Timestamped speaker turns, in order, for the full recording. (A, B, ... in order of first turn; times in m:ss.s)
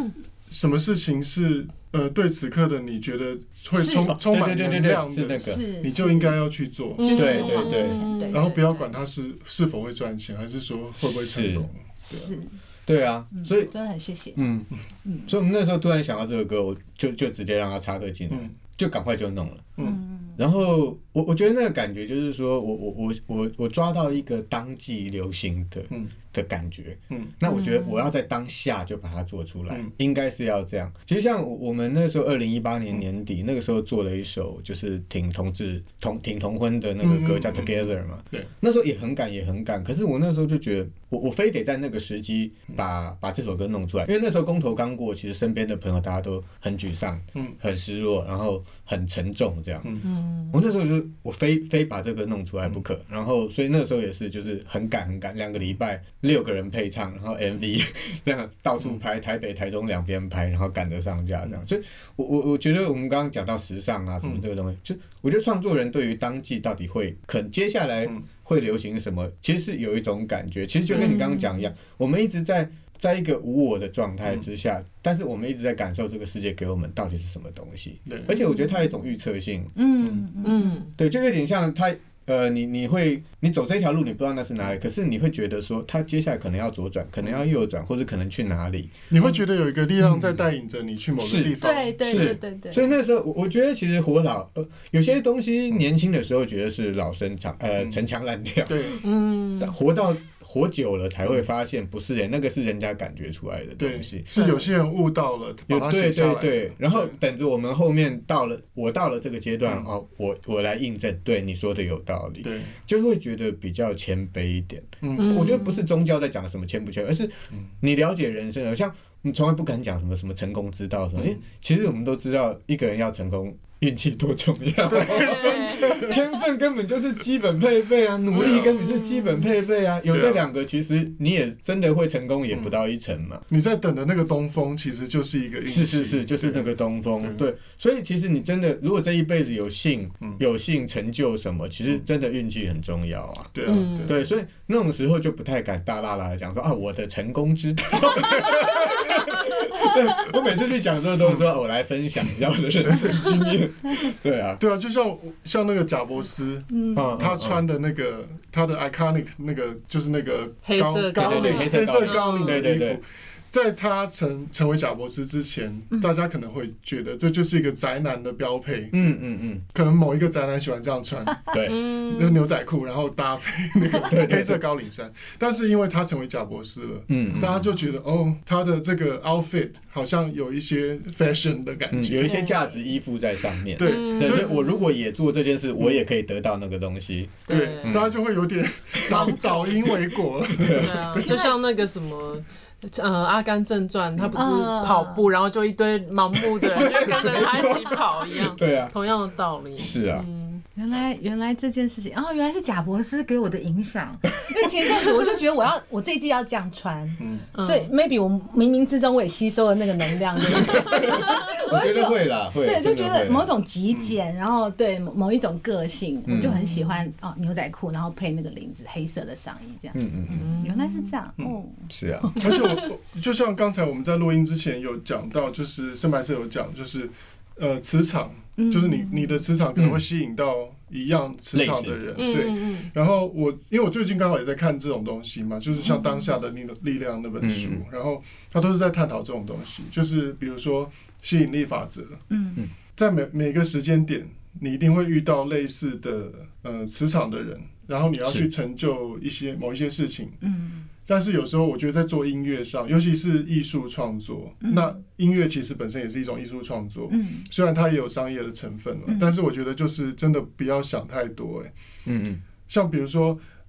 0:00.5-0:07.6 A
0:03.8-0:04.1 B
0:03.8-0:05.6 C
0:05.4-0:06.4 B
0:07.0-0:08.9 D
0:07.0-0:08.5 B
0:07.1-0:08.1 C
0:08.3-0:12.3 A
0:11.0-0:11.7 C
0:12.0-0:12.6 B
0:12.9-0:13.7 C
0:13.3-0:14.4 B
0:14.4-0:14.7 C
0:15.0-0:15.3 B
0:15.3-0:19.7 C
0:19.8-0:20.4 B
0:20.4-1:19.7 C
0:27.5-0:28.0 D
0:37.0-0:38.5 A
0:50.0-0:50.6 D
1:10.9-1:11.5 B
1:11.0-1:11.2 D
1:18.1-1:18.4 A
1:18.5-1:18.8 B
1:19.8-1:20.8 B
1:20.4-1:20.9 D
1:21.0-1:28.9 C
1:29.1-1:32.4 A
1:30.0-1:30.4 C
1:31.2-1:39.0 C
1:31.6-1:32.8 B
1:38.6-1:39.0 A
1:39.0-1:39.7 D
1:39.6-1:44.2 C
1:43.8-1:47.1 A
1:44.3-1:44.7 D
1:45.7-2:13.4 C
1:52.4-1:52.7 A
1:55.0-1:55.6 A
1:55.2-1:55.8 D
2:04.8-2:06.1 A
2:05.0-2:06.2 D
2:08.3-2:08.8 A
2:08.8-2:09.3 D
2:10.1-2:10.4 A
2:13.5-2:16.7 A
2:15.6-2:34.6 C
2:17.2-2:17.4 A
2:23.5-2:24.2 A
2:23.6-2:24.2 D
2:31.2-2:31.5 A
2:32.8-2:33.5 A
2:34.6-2:49.0 A
2:36.7-2:37.2 B
2:36.9-2:37.6 C
2:40.6-2:42.7 D
2:41.1-2:43.0 C
2:48.9-2:49.6 C
2:49.7-3:02.4 A
2:51.5-2:51.8 C
2:51.6-2:52.4 D
2:54.0-2:54.6 C
2:57.1-2:57.7 C
3:01.9-3:08.2 C
3:02.2-3:02.6 D
3:03.8-3:04.5 A
3:03.8-3:04.7 D
3:07.5-3:08.0 D
3:07.5-3:11.2 A
3:09.0-3:09.3 C
3:09.1-3:10.0 D
3:10.5-3:11.2 C
3:10.7-3:20.6 D
3:11.2-3:11.5 B
3:14.3-3:15.2 B
3:16.7-3:18.9 C
3:19.8-3:20.2 C
3:20.7-3:42.4 B
3:24.5-3:25.0 C
3:27.2-3:27.5 A
3:27.5-3:27.9 D
3:30.5-3:33.5 C
3:36.2-3:36.6 C
3:36.4-3:37.1 D
3:39.9-3:40.5 C
3:40.4-3:41.1 D
3:41.9-3:42.3 C
3:42.4-4:02.2 A
3:42.4-3:42.7 D
3:48.6-3:49.4 B
3:49.8-3:50.0 C
3:51.5-3:52.0 C
3:52.2-3:52.9 D
3:55.8-3:56.3 B
3:57.4-3:57.8 C
4:02.3-4:02.6 B
4:02.9-4:10.4 A
4:10.4-4:10.8 B
4:11.0-4:21.7 A
4:14.6-4:14.9 B
4:17.1-4:17.5 B
4:19.1-4:19.3 B
4:22.0-4:22.4 C
4:22.7-4:23.4 A